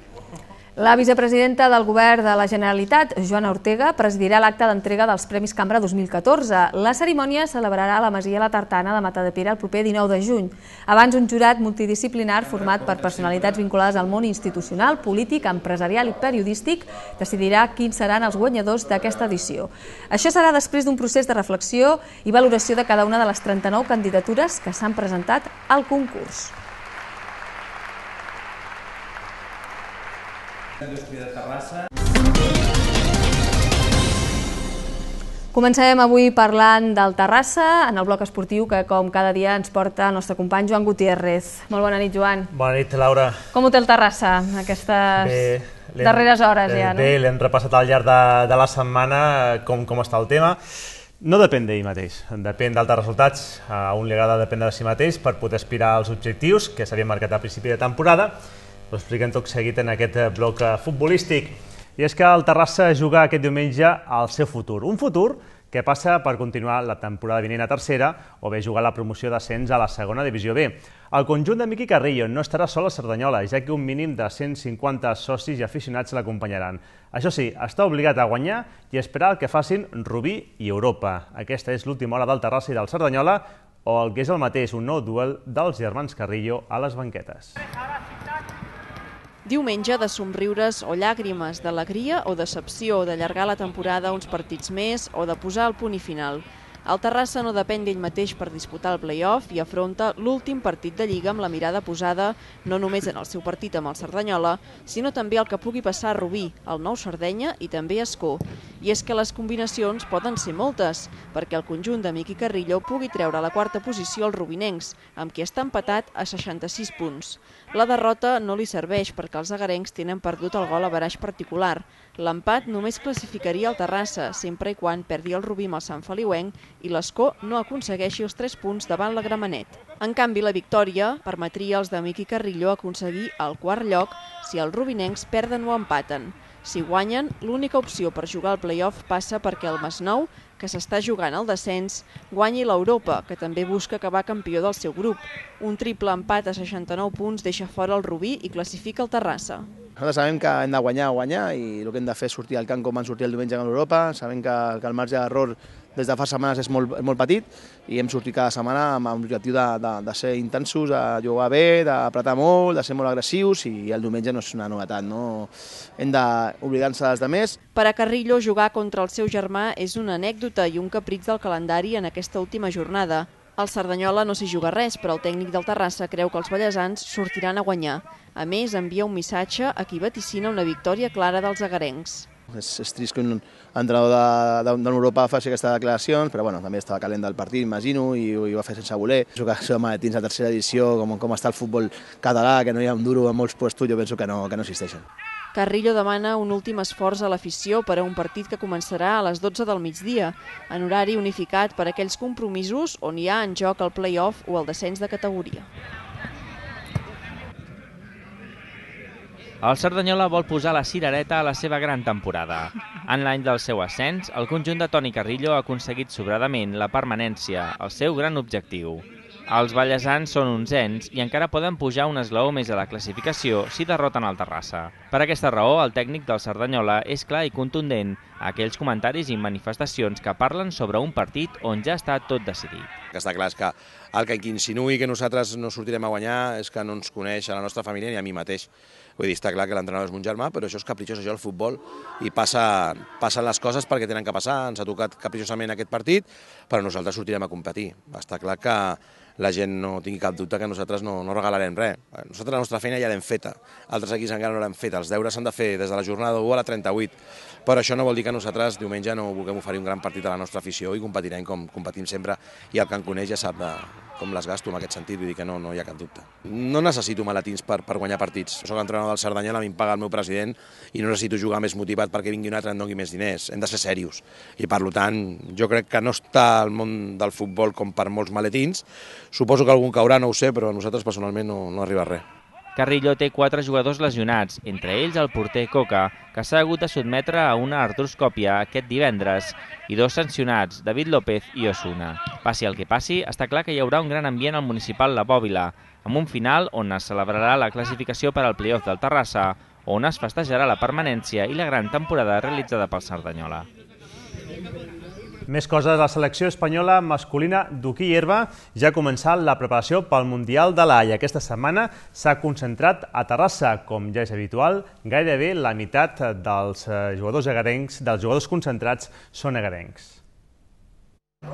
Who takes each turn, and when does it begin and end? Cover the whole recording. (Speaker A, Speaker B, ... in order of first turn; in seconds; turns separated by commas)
Speaker A: 0.8-26.5, Speaker A: 35.5-42.5, Speaker B: 42.5-43.4, Speaker A: 43.5-45.5, Speaker B: 45.2-50.6, Speaker A: 46.0-47.1, Speaker B: 51.2-58.4, Speaker B: 58.9-87.6, Speaker C: 89.5-149.7, Speaker D: 150.0-167.6, Speaker C: 167.8-182.3, Speaker D: 182.5-195.0, Speaker C: 195.5-205.7, Speaker E: 209.6-232.9, Speaker F: 233.1-257.1, Speaker F: 257.6-282.2, Speaker E: 282.8-303.7, Speaker B: 305.5-320.2